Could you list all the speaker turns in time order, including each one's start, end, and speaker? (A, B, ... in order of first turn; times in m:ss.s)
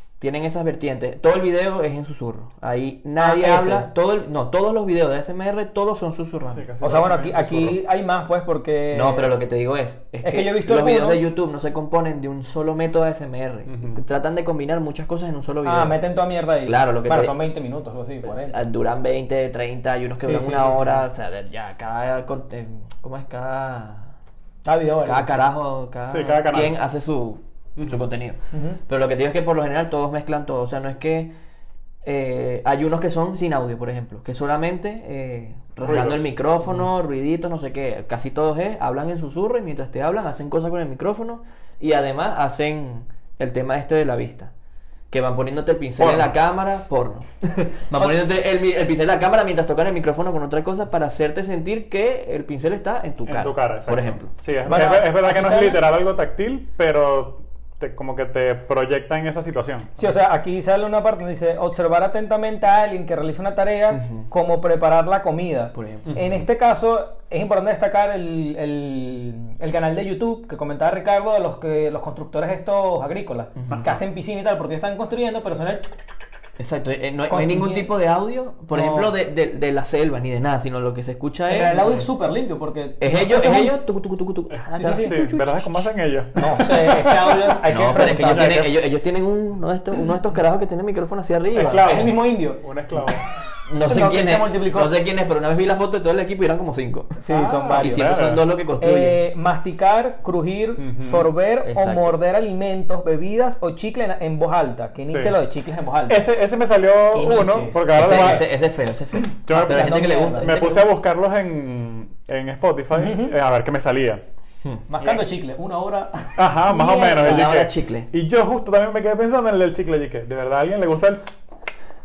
0:00.2-0:06.6 A
0:03.2-0:03.9 B
0:06.4-0:07.8 C
0:06.8-0:09.3 B
0:08.9-0:16.0 A
0:10.2-0:11.2 B
0:13.7-0:14.0 C
0:15.6-0:18.6 B
0:16.6-0:17.4 A
0:18.2-0:24.1 A
0:20.2-0:21.0 B
0:24.6-0:25.3 B
0:25.0-0:31.3 A
0:26.0-0:26.8 C
0:27.8-0:28.1 C
0:28.5-0:28.8 B
0:32.0-0:44.5 A
0:35.8-0:36.8 C
0:45.1-0:54.3 A
0:46.0-0:46.4 C
0:53.2-1:00.0 C
0:54.6-0:55.8 B
1:00.0-1:16.2 B
1:03.9-1:04.3 A
1:05.7-1:06.3 A
1:06.1-1:06.3 C
1:13.6-1:13.9 A
1:13.7-1:14.0 C
1:16.6-1:22.0 A
1:17.3-1:17.9 B
1:18.7-1:19.1 B
1:21.5-1:23.7 B
1:23.0-1:25.9 A
1:24.5-1:28.7 C
1:24.7-1:25.2 B
1:26.4-1:28.6 B
1:27.6-1:32.1 A
1:31.5-1:33.2 C
1:31.8-1:32.6 B
1:33.7-1:37.2 A
1:33.8-1:34.9 B
1:37.2-1:38.1 B
1:37.3-1:38.4 C
1:37.8-1:39.2 A
1:38.8-1:46.2 B
1:40.8-1:41.3 C
1:41.6-1:42.2 A
1:45.0-1:45.4 C
1:46.1-1:48.5 C
1:47.1-1:48.4 B
1:47.9-1:50.9 A
1:49.2-1:54.2 C
1:49.5-1:50.6 B
1:52.9-1:53.3 B
1:54.9-1:57.5 B
1:56.4-2:01.2 C
1:57.2-1:58.1 A